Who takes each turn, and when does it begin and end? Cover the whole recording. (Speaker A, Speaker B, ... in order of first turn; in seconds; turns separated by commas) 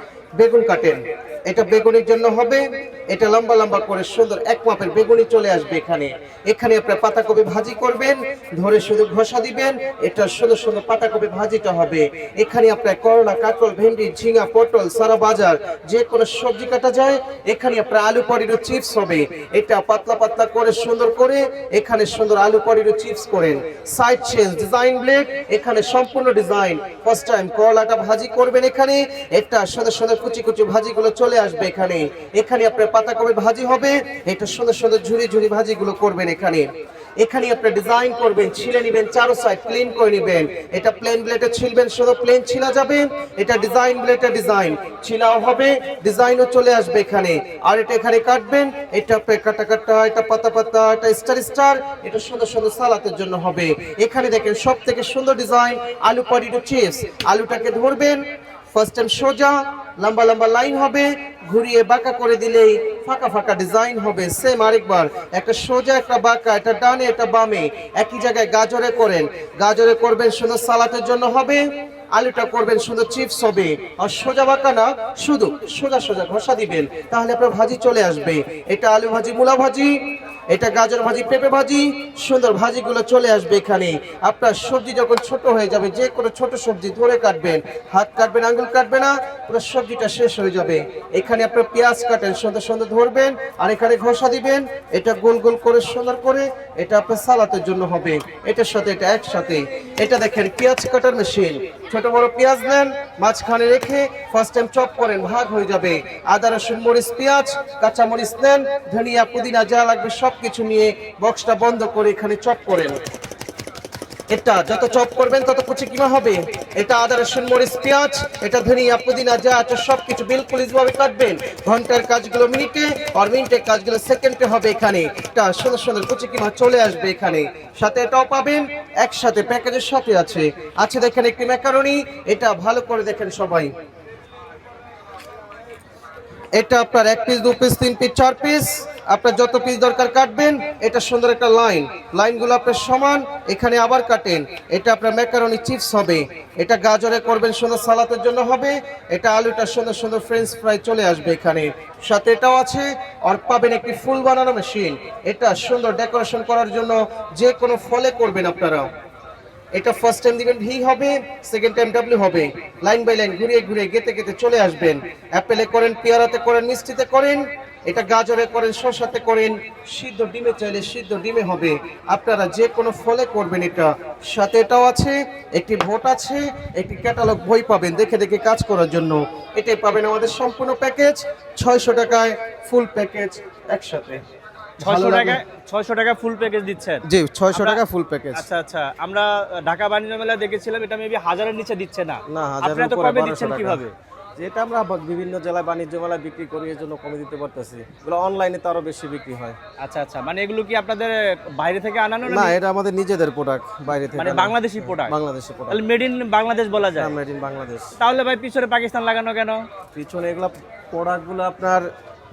Speaker A: 0.4-36.7, Speaker A: 37.2-71.6, Speaker A: 72.2-80.0, Speaker A: 80.5-113.0, Speaker A: 114.3-133.7, Speaker A: 136.6-158.9, Speaker A: 159.7-184.2, Speaker A: 184.8-185.4, Speaker B: 184.8-187.8, Speaker A: 187.1-188.4, Speaker B: 188.3-193.9, Speaker A: 192.3-193.8, Speaker A: 194.4-199.6, Speaker B: 199.8-202.6, Speaker A: 202.2-205.8, Speaker B: 204.1-205.1, Speaker B: 205.7-207.2, Speaker A: 207.0-208.0, Speaker B: 208.0-209.7, Speaker A: 209.9-211.9